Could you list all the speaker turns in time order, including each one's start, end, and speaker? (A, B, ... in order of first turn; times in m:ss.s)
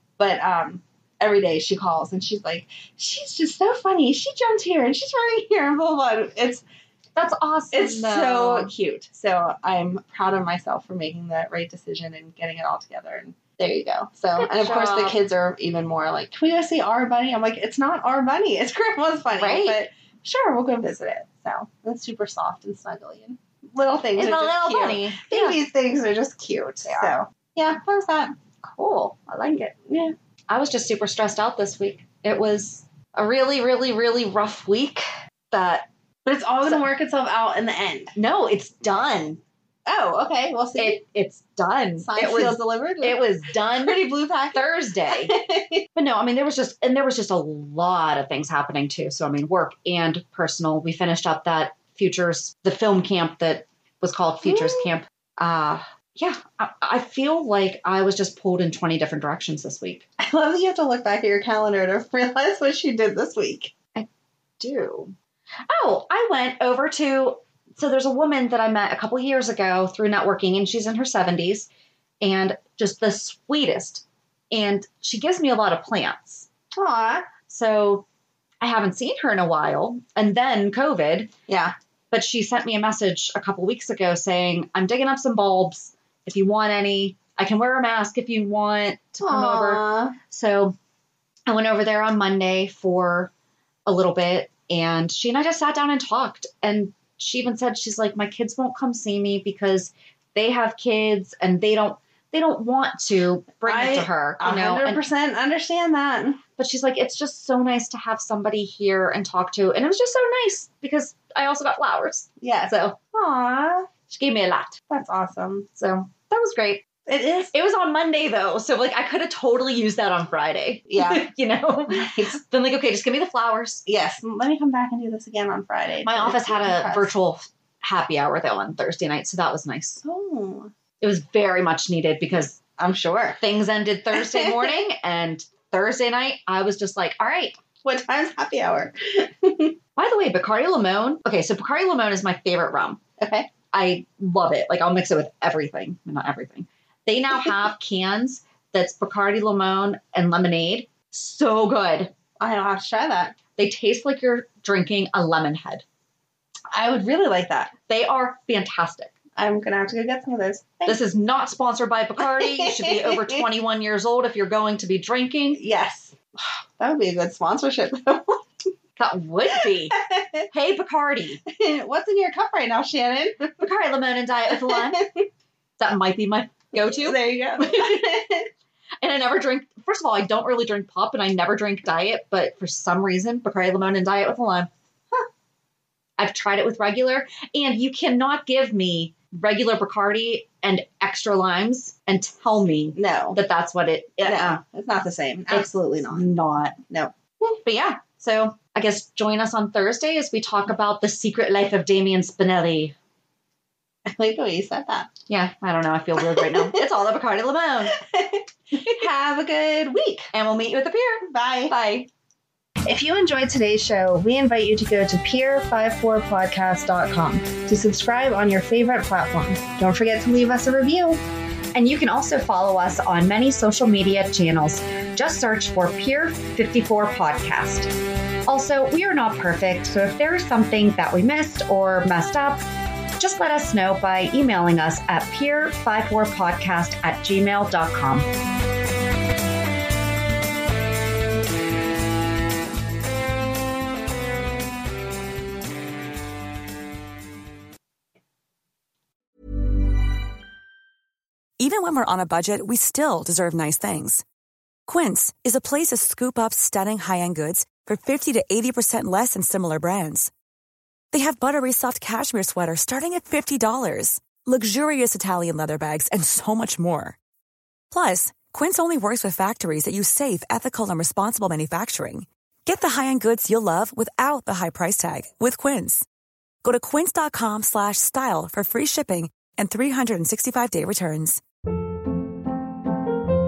0:00.2-0:06.6 A
0:07.2-0:08.7 B
0:07.7-0:28.3 A
0:14.4-0:15.2 B
0:19.3-0:19.8 B
0:24.2-0:25.6 B
0:26.8-0:27.1 B
0:28.6-0:29.7 B
0:29.7-0:30.1 A
0:30.5-0:35.9 B
0:36.2-0:38.1 A
0:38.2-0:39.4 B
0:39.8-0:41.0 A
0:40.8-0:45.3 B
0:42.0-0:45.8 A
0:45.9-1:00.0 B
0:54.4-0:54.9 A
1:00.2-1:03.7 A
1:04.6-1:05.1 B
1:05.7-1:11.7 B
1:12.2-1:16.5 B
1:16.7-1:17.3 A
1:17.4-1:18.0 B
1:18.6-1:21.3 B
1:21.5-1:21.7 A
1:22.1-1:30.7 B
1:29.2-1:30.1 A
1:31.5-1:33.3 B
1:33.8-1:45.0 B
1:43.6-1:46.4 A
1:46.6-1:53.0 B
1:52.4-1:53.9 A
1:54.1-1:54.8 B
1:54.9-1:55.7 A
1:55.8-1:56.8 B
1:57.0-1:57.5 A
1:57.5-2:03.8 B
2:00.9-2:01.3 A
2:01.9-2:02.4 A
2:03.8-2:07.1 A
2:06.0-2:10.0 B
2:10.0-2:10.7 A
2:11.0-2:12.6 B
2:12.8-2:13.4 A
2:13.4-2:17.6 B
2:14.1-2:14.7 A
2:17.8-2:19.8 A
2:20.0-2:23.0 B
2:23.2-2:23.5 A
2:23.7-2:32.1 B
2:32.4-2:33.4 A
2:33.6-2:35.8 B
2:36.7-2:37.7 A
2:37.9-2:39.1 B
2:39.4-2:41.0 A
2:40.8-2:45.6 B
2:42.2-2:43.4 A
2:45.5-2:48.4 A
2:49.0-2:50.0 B
2:49.5-2:50.4 A
2:50.5-2:51.4 B
2:51.5-2:53.6 A
2:53.6-2:55.0 B
2:54.5-2:55.2 A
2:55.8-2:58.1 B
2:56.7-2:58.5 A
2:59.0-3:04.7 B
3:06.2-3:14.6 B
3:12.9-3:13.4 A
3:14.2-3:17.6 A
3:15.5-3:16.8 B
3:17.6-3:22.9 B
3:24.0-3:25.1 A
3:25.3-3:28.0 B
3:26.2-3:27.0 A
3:27.9-3:30.3 A
3:30.3-3:32.1 B
3:31.2-3:31.8 A
3:32.8-3:41.2 A
3:41.7-3:47.9 B
3:48.4-3:52.6 B
3:53.2-3:58.3 B
4:11.6-4:14.2 C
4:14.9-4:20.3 C
4:21.1-4:27.2 C
4:27.9-4:36.0 C
4:36.6-4:41.4 C